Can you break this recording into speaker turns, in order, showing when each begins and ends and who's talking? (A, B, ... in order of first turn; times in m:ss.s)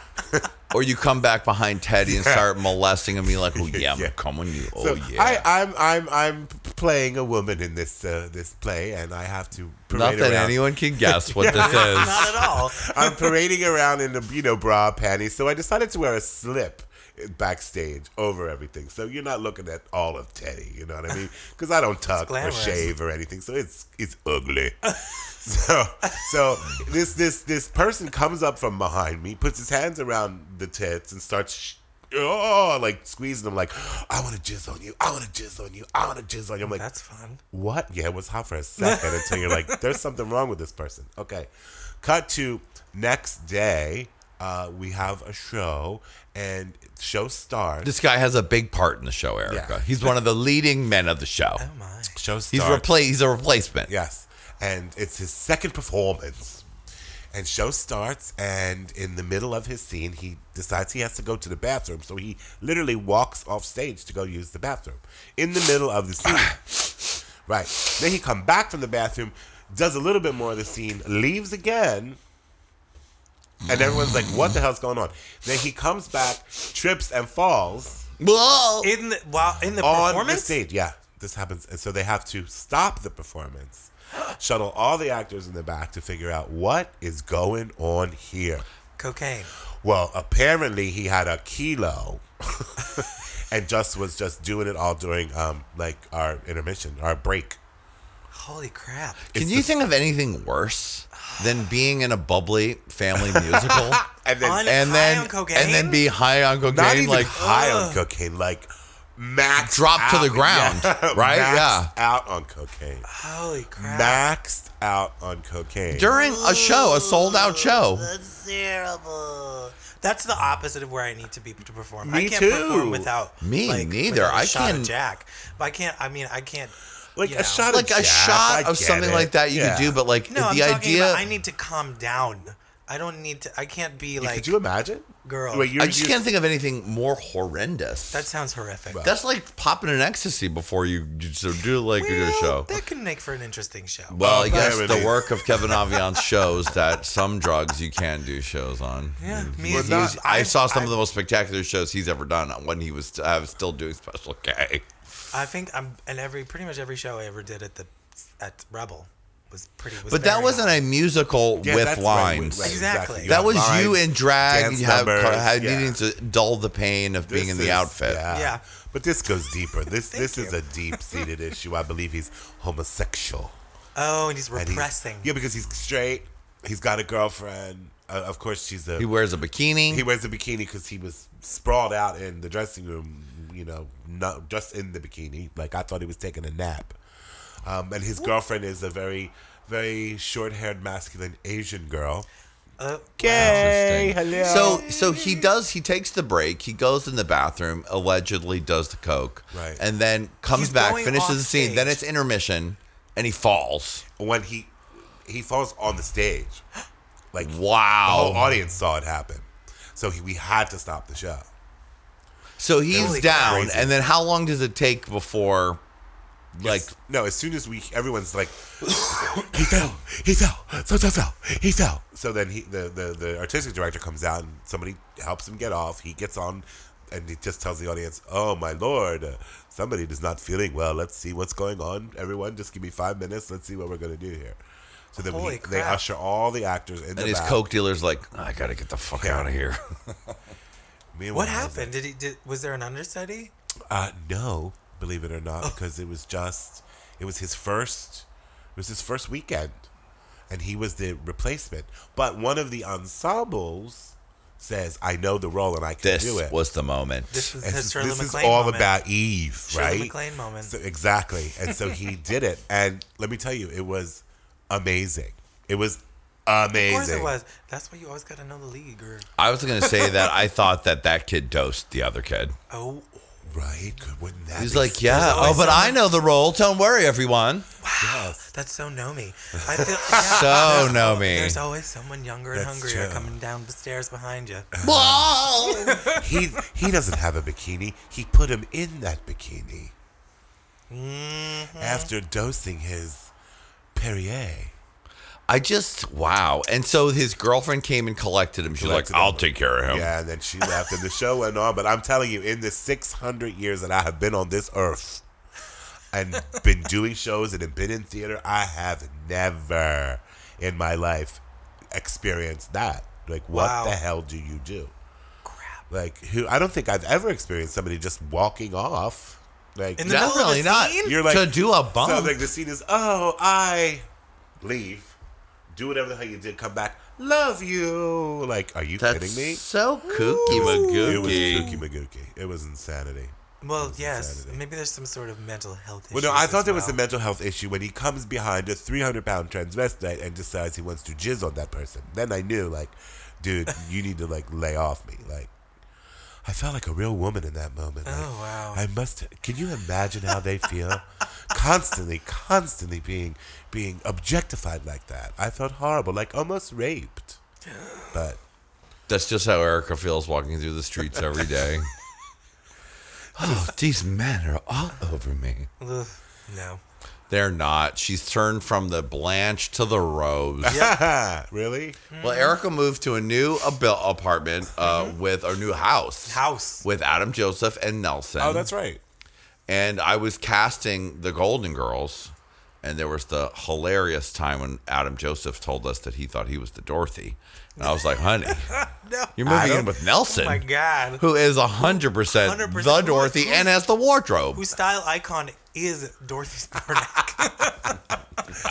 0:00.7-0:05.5 A
0:02.0-0:02.5 B
0:03.3-0:04.2 B
0:04.7-0:36.8 B
0:09.9-0:12.3 A
0:11.5-0:13.2 C
0:22.2-0:22.9 C
0:36.6-0:37.4 C
0:37.5-0:41.5 B
0:38.8-0:39.8 C
0:42.0-0:47.9 B
0:47.8-0:51.6 A
0:49.5-0:50.1 B
0:51.6-0:52.2 C
0:52.1-0:52.9 B
0:52.5-0:53.9 A
0:53.9-0:56.6 B
0:57.3-1:06.9 B
1:07.4-1:12.2 B
1:13.6-1:18.0 B
1:18.2-1:18.9 A
1:18.8-1:20.6 C
1:19.8-1:28.6 B
1:29.0-1:29.5 C
1:29.8-1:37.6 B
1:38.3-1:39.2 C
1:39.3-1:39.7 B
1:39.3-1:44.0 A
1:41.2-1:41.5 C
1:43.2-1:44.7 B
1:44.4-1:46.0 C
1:44.6-1:47.3 A
1:46.6-1:53.0 B
1:47.3-1:48.0 C
1:49.6-1:51.9 A
1:53.1-1:54.2 C
1:53.8-1:56.2 B
1:55.9-1:58.1 A
1:56.1-2:07.7 C
2:02.0-2:03.1 B
2:03.4-2:04.9 A
2:07.2-2:10.0 B
2:07.7-2:11.2 A
2:10.3-2:14.5 C
2:14.2-2:16.2 B
2:15.2-2:15.7 C
2:15.8-2:18.2 A
2:18.1-2:19.1 C
2:19.0-2:22.8 A
2:22.0-2:24.3 C
2:24.1-2:34.9 A
2:24.2-2:25.3 B
2:29.2-2:31.0 C
2:29.6-2:30.2 B
2:35.3-2:40.8 C
2:40.1-2:48.2 A
2:41.6-2:46.0 B
2:42.6-2:43.3 C
2:47.3-2:53.5 B
2:48.3-2:48.6 C
2:50.1-2:51.2 C
2:54.0-2:55.3 C
2:54.5-2:59.1 B
2:59.0-3:00.0 A
2:59.9-3:07.0 B
3:07.6-3:12.3 B
3:12.8-3:13.7 C
3:13.2-3:14.9 B
3:13.3-3:24.0 A
3:14.3-3:15.4 C
3:19.5-3:19.8 B
3:20.5-3:22.0 C
3:24.2-3:24.7 B
3:25.2-3:26.6 B
3:27.3-3:31.5 B
3:27.4-3:28.5 A
3:32.6-3:35.8 A
3:32.9-3:33.9 B
3:32.9-3:33.7 C
3:36.6-3:36.9 A
3:36.6-3:54.6 B
3:55.1-3:57.6 B
3:55.2-3:56.0 C
3:57.1-4:00.4 A
3:59.2-3:59.5 B
4:01.1-4:01.9 B
4:01.3-4:03.5 C
4:03.9-4:09.8 B
4:10.5-4:16.5 B
4:16.0-4:17.3 A
4:17.3-4:18.9 C
4:17.6-4:27.3 B
4:19.7-4:20.7 C
4:26.7-4:29.3 C
4:29.4-4:32.6 A
4:29.8-4:30.3 C
4:32.7-4:33.2 C
4:33.5-4:35.9 B
4:34.6-4:37.7 A
4:35.0-4:36.0 C
4:37.8-4:44.7 C
4:38.0-4:38.4 B
4:39.7-4:41.0 B
4:40.2-4:41.6 A
4:42.5-4:43.4 B
4:44.7-4:45.3 B
4:44.8-4:46.1 A
4:45.6-4:46.2 C
4:46.1-4:49.9 B
4:50.9-4:52.1 C
4:51.8-4:53.3 B
4:53.9-4:54.7 B
4:55.5-5:00.1 A
4:58.8-5:05.2 B
5:06.1-5:11.4 B
5:11.9-5:14.9 B
5:13.5-5:14.0 C
5:15.4-5:15.8 C
5:15.9-5:20.3 B
5:20.0-5:21.2 C
5:20.0-5:22.4 A
5:21.0-5:24.0 B
5:24.6-5:25.1 B
5:25.7-5:29.6 B
5:29.0-5:31.7 A
5:30.0-5:31.8 C
5:30.5-5:34.6 B
5:33.6-5:37.0 C
5:36.1-5:45.5 B
5:46.4-5:57.4 B
5:48.0-5:48.8 C
5:57.6-5:58.1 C
5:58.1-5:58.4 B
5:59.1-6:01.9 A
6:03.4-6:05.7 A
6:05.8-6:06.8 C
6:07.3-6:10.8 A
6:10.6-6:12.0 B
6:10.7-6:11.0 C
6:12.1-6:12.6 C
6:12.2-6:18.7 A
6:14.8-6:15.2 C
6:16.2-6:16.8 C
6:18.4-6:19.0 B
6:19.7-6:28.8 A
6:27.8-6:31.2 C
6:29.4-6:30.6 A
6:29.5-6:29.9 B
6:31.2-6:34.6 A
6:31.8-6:33.8 C
6:34.5-6:38.0 C